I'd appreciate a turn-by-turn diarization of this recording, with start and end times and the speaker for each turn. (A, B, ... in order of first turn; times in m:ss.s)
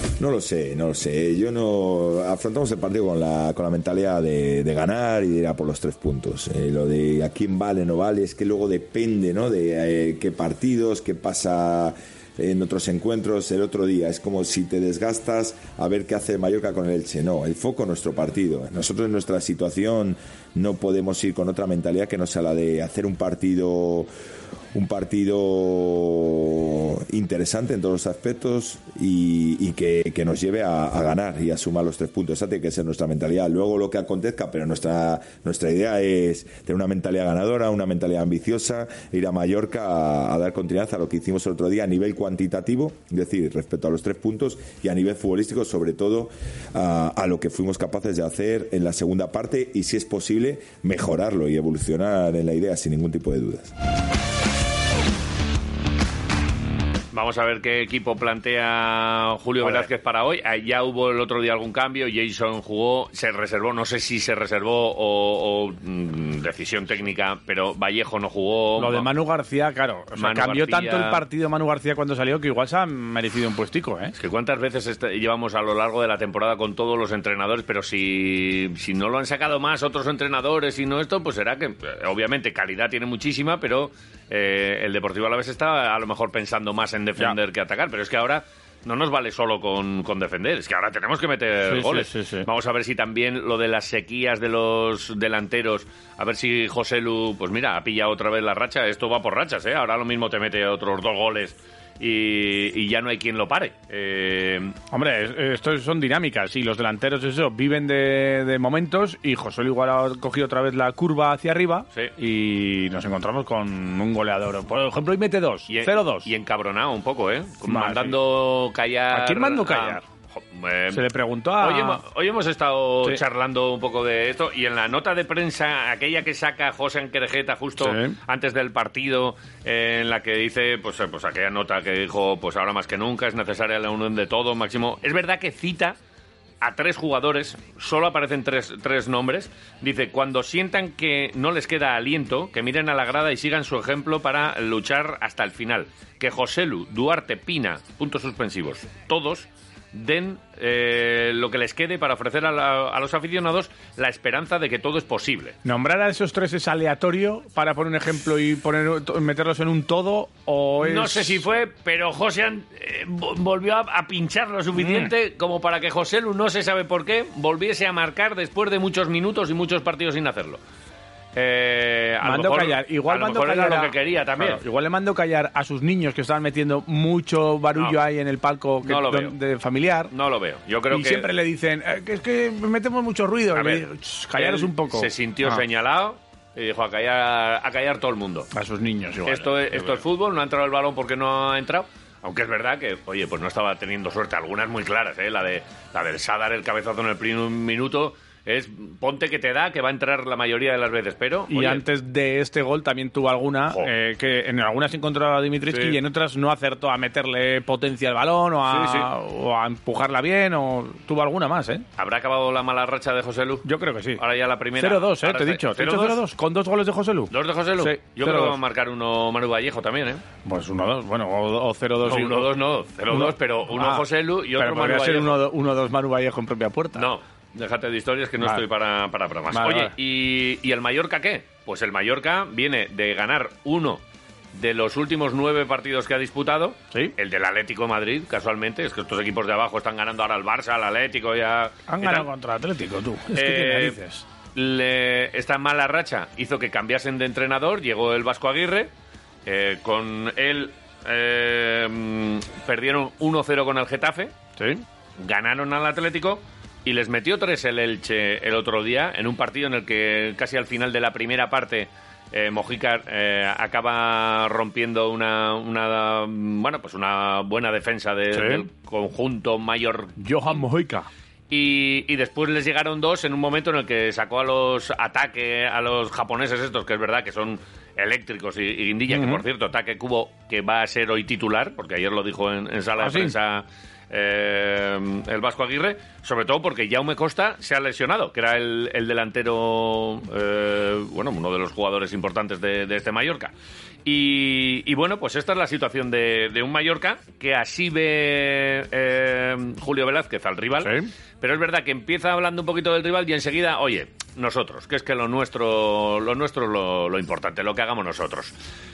0:00.2-0:24.1 A
0:24.7-0:53.7 A
0:57.1-1:09.1 B
0:59.6-0:59.9 C
1:08.8-1:14.1 C
1:10.2-1:11.2 B
1:14.2-1:44.8 B
1:31.7-1:32.5 C
1:44.9-1:56.3 C
1:55.7-2:01.1 B
1:57.6-1:58.2 C
1:59.1-2:00.0 C
2:00.9-2:02.0 C
2:01.6-2:16.0 B
2:07.8-2:08.2 C
2:16.6-2:35.6 B
2:35.6-2:41.4 C
2:40.8-2:50.6 B
2:44.8-2:45.1 C
2:51.4-2:54.6 B
2:52.2-3:00.1 C
2:58.8-2:59.4 B
3:00.1-3:01.3 B
3:00.9-3:05.6 C
3:03.6-3:08.5 B
3:08.5-3:10.0 C
3:09.3-3:21.8 B
3:21.5-3:31.8 C
3:25.7-3:26.0 B
3:28.7-3:29.1 B
3:32.0-3:33.7 B
3:33.6-3:34.2 C
3:34.2-3:36.2 B
3:34.8-3:38.6 C
3:37.3-3:40.2 B
3:40.4-3:42.5 C
3:42.0-3:45.4 B
3:43.1-3:44.0 C
3:44.6-3:47.1 C
3:47.0-3:54.0 B
3:49.5-3:49.9 C
3:54.6-4:02.3 B
4:01.9-4:04.2 C
4:03.3-4:04.0 B
4:04.6-4:08.9 B
4:09.5-4:14.3 B
4:14.6-4:14.8 C
4:15.2-4:30.2 B
4:28.3-4:28.6 C
4:30.2-4:31.1 C
4:31.5-4:53.5 B
4:39.1-4:39.4 C
4:43.0-4:43.3 C
4:54.0-5:08.5 B
5:00.8-5:01.1 C